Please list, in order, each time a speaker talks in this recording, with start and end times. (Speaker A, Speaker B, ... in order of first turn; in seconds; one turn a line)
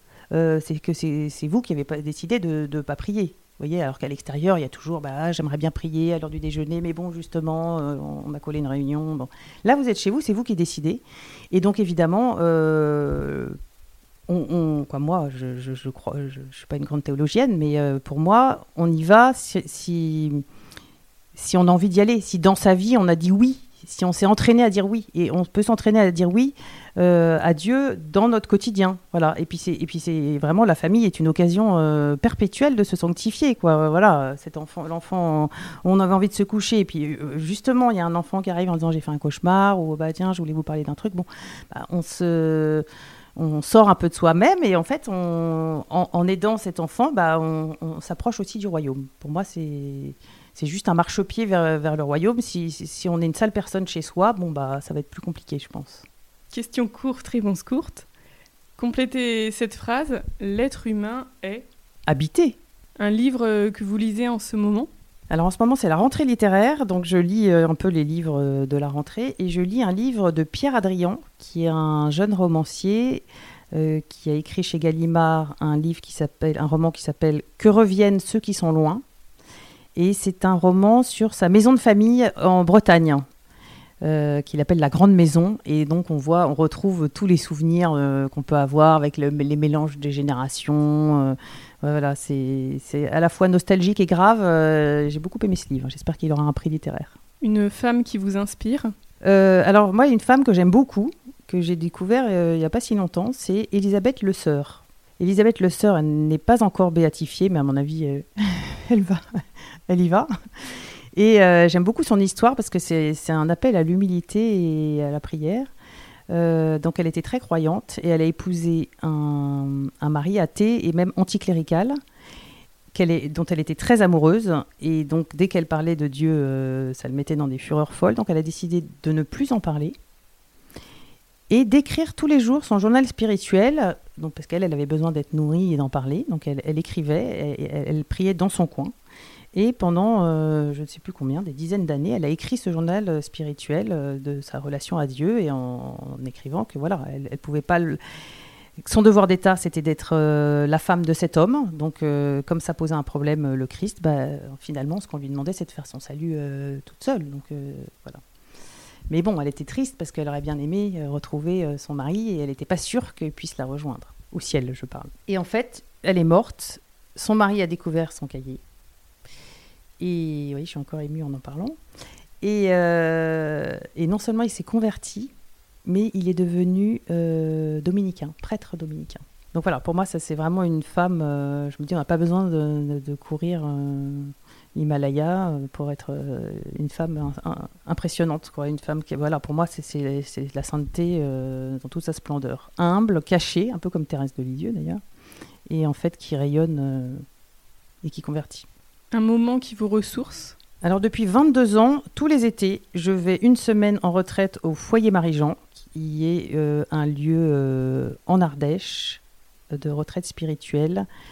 Speaker A: 0.3-13.6
Speaker A: 14.3-20.4
Speaker A: 21.4-42.9
Speaker A: 43.4-56.0
Speaker B: 56.5-58.1
Speaker B: 58.8-61.7
Speaker A: 62.1-62.6
Speaker B: 63.0-64.9
Speaker A: 65.3-79.0
Speaker A: 80.0-83.2
Speaker A: 84.0-97.2
Speaker B: 97.4-98.9
Speaker A: 99.2-115.7
Speaker A: 116.3-122.0
Speaker A: 122.9-129.9
Speaker A: 131.5-138.9
Speaker A: 139.5-148.0
Speaker A: 148.8-158.2
Speaker A: 159.1-168.6
Speaker A: 170.0-171.8
Speaker A: 172.4-175.3
Speaker A: 175.8-195.0
Speaker A: 195.7-197.2
Speaker A: 198.0-198.7
Speaker B: 199.1-200.6
Speaker A: 200.8-211.1